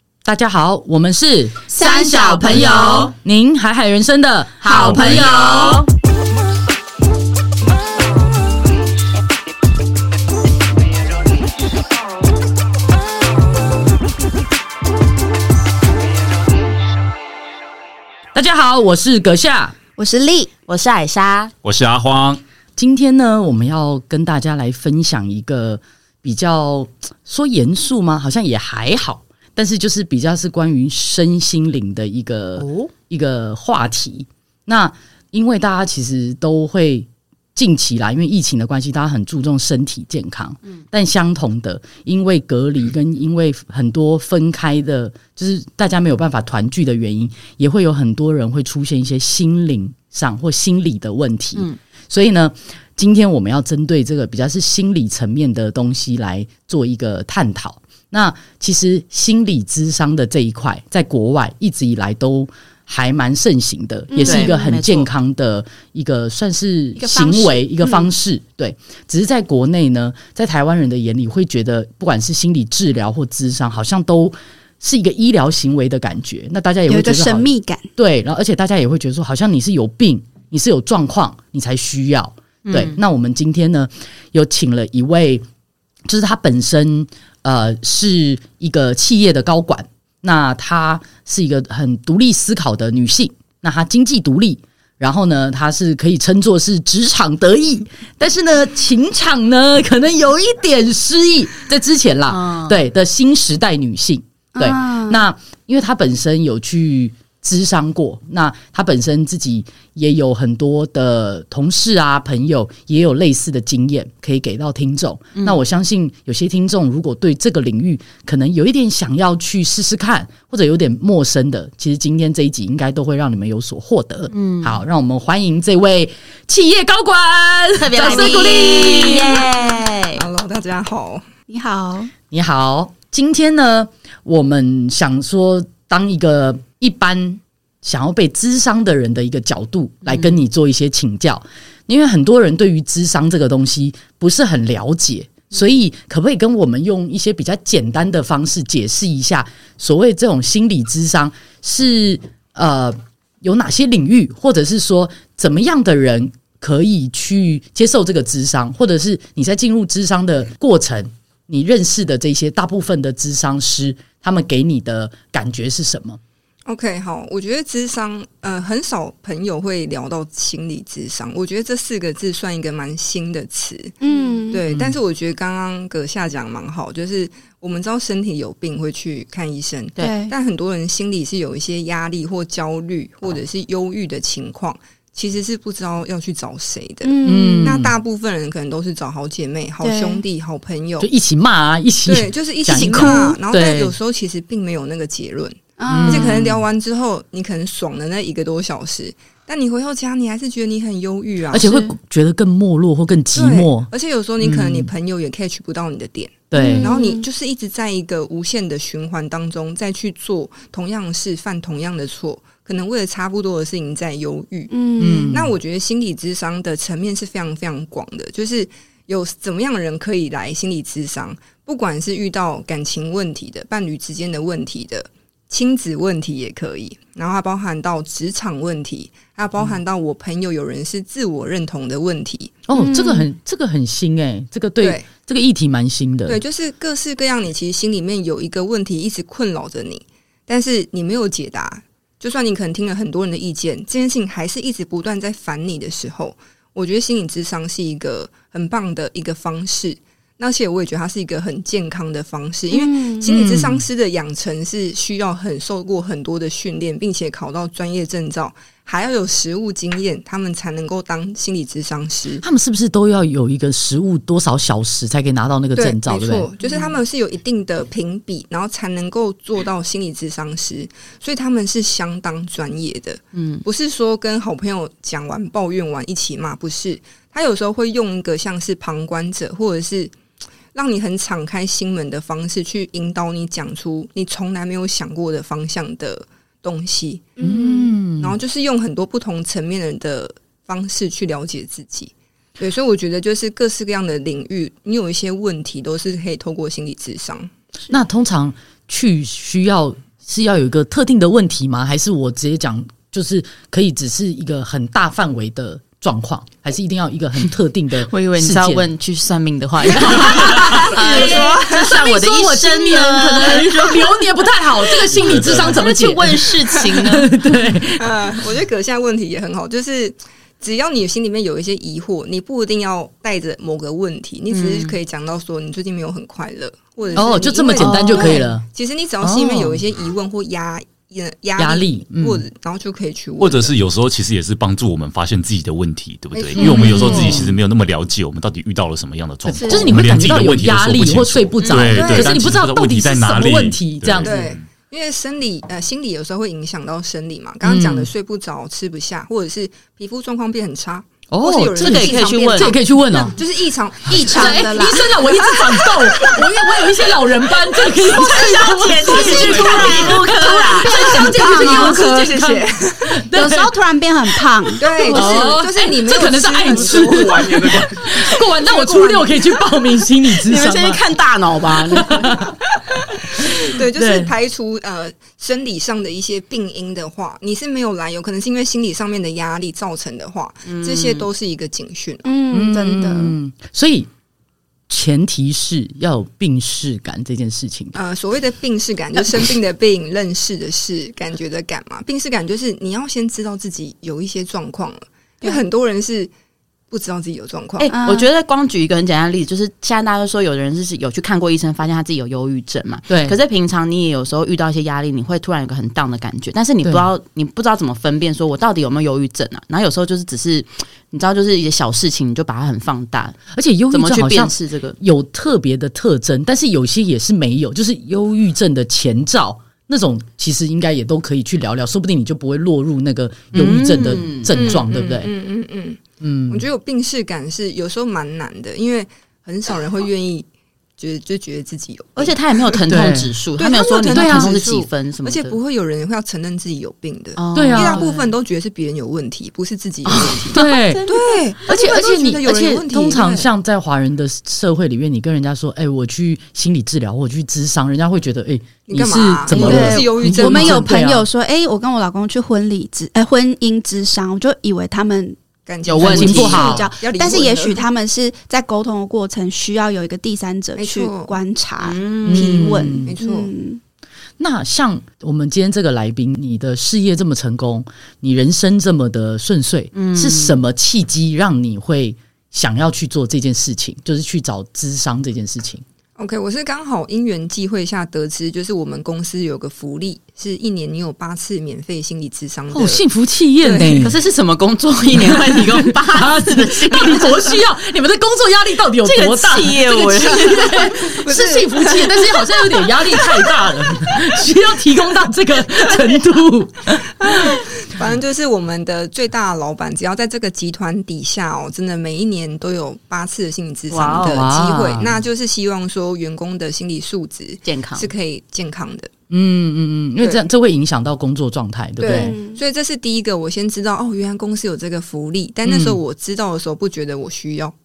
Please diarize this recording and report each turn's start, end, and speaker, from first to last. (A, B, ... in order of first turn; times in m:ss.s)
0:00.2-0:01.7 A
0:01.7-0:03.1 B
0:01.8-0:03.1 C
0:02.4-0:05.8 A
0:04.6-0:05.9 B
0:04.7-0:05.5 D
0:18.3-0:19.8 A
0:20.0-0:20.5 C
0:20.7-0:21.5 B
0:21.6-0:22.4 D
0:22.8-1:25.4 A
0:32.6-0:32.9 B
1:04.1-1:04.6 C
1:04.2-1:05.1 B
1:07.0-1:08.1 C
1:16.9-1:17.9 C
1:22.6-1:23.0 B
1:26.1-2:09.4 A
1:42.3-1:42.8 B
1:44.6-1:45.2 C
2:04.3-2:04.8 B
2:07.8-2:10.2 B
2:10.1-2:11.3 E
2:11.5-2:12.1 C
2:12.3-2:46.2 A
2:20.1-2:20.4 B
2:46.7-2:54.0 E
2:54.0-2:54.6 C
2:54.5-3:11.1 E
3:00.0-3:00.3 C
3:07.0-3:07.8 C
3:07.2-3:07.9 A
3:09.8-3:10.2 C
3:11.0-3:14.0 A
3:12.1-3:21.9 E
3:12.7-3:13.4 C
3:15.8-3:16.4 C
3:15.9-3:16.6 A
3:21.5-3:24.9 A
3:23.3-3:52.6 E
3:26.5-3:26.9 A
3:26.5-3:27.2 C
3:34.7-3:35.4 C
3:35.0-3:35.5 A
3:52.7-3:56.4 A
3:52.7-3:53.3 C
3:54.8-3:55.1 E
3:56.3-4:22.4 E
4:12.7-4:13.3 C
4:13.2-4:13.8 A
4:22.4-4:26.5 A
4:25.8-4:40.1 E
4:26.6-4:27.0 B
4:33.3-4:33.6 B
4:40.7-4:57.5 E
4:47.4-4:47.9 C
4:47.4-4:48.4 A
4:57.9-5:08.9 A
5:08.0-5:14.2 B
5:09.9-5:18.2 A
5:10.5-5:11.9 E
5:14.8-5:17.3 B
5:15.1-5:15.8 D
5:18.0-5:33.7 E
5:24.5-5:25.0 B
5:27.2-5:28.6 A
5:27.8-5:28.6 C
5:29.2-5:29.8 A
5:31.6-5:32.4 A
5:33.4-5:44.6 D
5:36.3-5:37.4 E
5:36.6-5:37.6 A
5:36.6-5:37.3 C
5:39.4-5:44.5 A
5:39.6-5:39.9 C
5:41.7-5:42.5 E
5:44.2-5:56.3 E
5:47.6-5:48.1 A
5:51.3-5:53.4 A
5:51.8-5:52.8 B
5:54.1-5:55.8 C
5:54.2-6:03.8 A
5:57.9-6:02.6 B
5:59.0-6:00.2 E
5:59.1-6:02.0 C
5:59.4-6:00.1 D
6:00.9-6:03.1 E
6:03.3-6:05.6 C
6:04.8-6:09.8 E
6:05.1-6:11.0 A
6:06.7-6:07.8 D
6:10.4-6:12.3 B
6:11.8-6:14.3 A
6:13.4-6:22.3 E
6:20.7-6:21.3 B
6:22.2-6:23.3 C
6:22.5-6:24.1 A
6:24.9-6:28.0 A
6:27.9-6:36.3 E
6:36.9-6:37.9 E
6:37.8-6:53.4 B
6:37.9-6:38.3 C
6:43.1-6:43.4 A
6:53.5-7:05.3 A
6:53.9-6:55.0 B
7:03.5-7:04.8 B
7:04.5-7:10.5 E
7:06.2-7:06.6 A
7:11.0-7:12.8 E
7:12.2-7:15.6 B
7:12.9-7:13.3 A
7:13.6-7:23.5 E
7:14.1-7:14.6 A
7:17.4-7:18.3 B
7:17.5-7:18.0 A
7:20.0-7:21.0 B
7:20.5-7:21.0 A
7:21.7-7:31.3 A
7:28.9-7:30.9 E
7:29.5-7:30.4 B
7:29.5-7:35.4 C
7:35.7-7:37.8 E
7:35.8-7:36.8 B
7:36.0-7:43.8 C
7:36.0-7:36.9 A
7:40.8-7:41.4 E
7:41.8-7:42.6 B
7:42.3-7:43.1 A
7:42.6-7:43.5 E
7:44.4-7:55.8 A
7:49.9-7:50.6 B
7:56.2-8:03.0 E
8:02.7-8:04.2 A
8:03.6-8:04.1 E
8:04.0-8:07.4 B
8:05.1-8:17.6 A
8:09.0-8:10.9 B
8:10.4-8:12.7 E
8:17.0-8:29.1 E
8:23.9-8:24.4 B
8:24.2-8:25.1 A
8:27.6-8:28.1 B
8:29.3-8:32.4 A
8:32.0-8:37.7 E
8:32.1-8:32.6 C
8:35.7-8:36.0 A